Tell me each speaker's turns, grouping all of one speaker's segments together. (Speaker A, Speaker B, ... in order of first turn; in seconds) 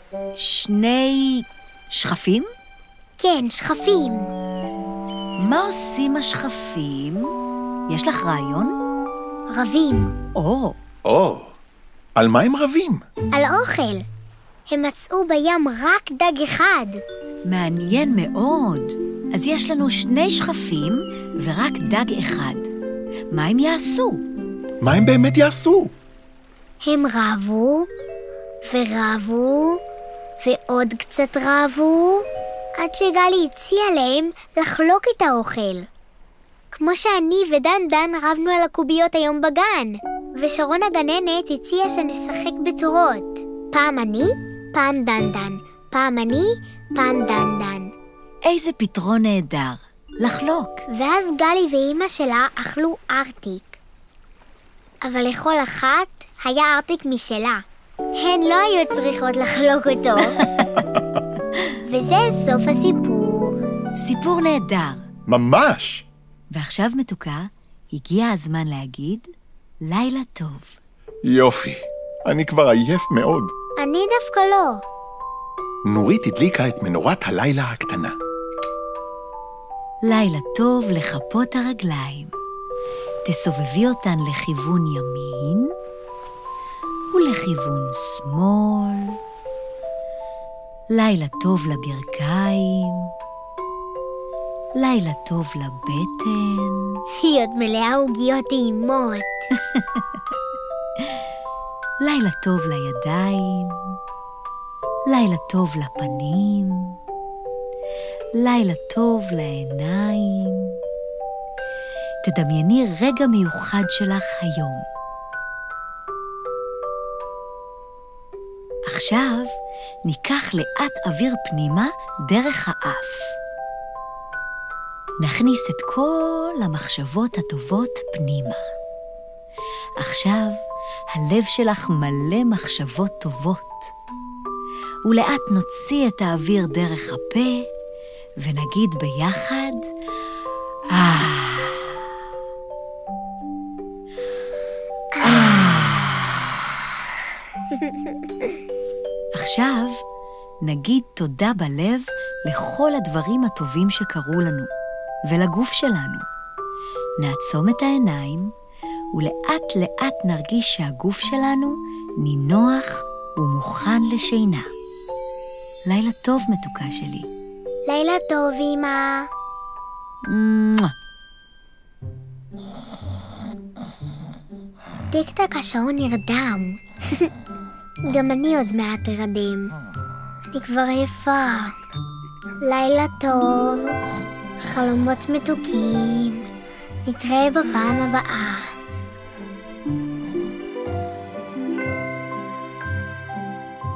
Speaker A: 0.4-2.4, 5.4-7.3, 7.9-8.7, 10.3-10.7, 17.4-22.7, 23.3-24.2, 48.5-50.8, 60.4-60.8, 64.0-65.0, 66.5-69.3, 69.8-70.8, 80.1-82.3, 83.2-85.7, 87.1-89.2, 90.9-93.1, 94.8-97.0, 99.7-100.0, 102.0-104.0, 105.1-107.0, 108.4-110.8, 112.2-114.8, 118.9-119.5, 120.0-123.3, 125.2-128.6, 130.0-130.5, 131.1-133.9, 135.0-137.6, 138.4-139.8, 140.9-142.0, 145.2-146.4, 149.3-149.9, 150.6-154.7, 155.3-156.2, 157.2-158.5, 159.1-164.7, 165.9-167.3, 170.3-170.9
Speaker B: 3.2-4.3, 9.5-10.1, 13.3-14.0, 14.7-17.0, 26.8-27.9, 28.7-29.8, 30.4-32.2, 32.8-35.9, 36.7-47.9, 50.9-53.8, 55.0-57.6, 58.2-60.4, 61.9-63.6, 73.8-74.8, 97.2-99.5, 145.1-145.7, 167.9-169.2, 175.1-177.3, 178.1-179.7, 180.5-181.7, 182.6-183.9, 184.6-186.4, 187.0-188.7
Speaker C: 11.0-11.5, 12.2-13.0, 24.8-25.9, 65.3-66.0, 71.2-73.5, 75.8-78.1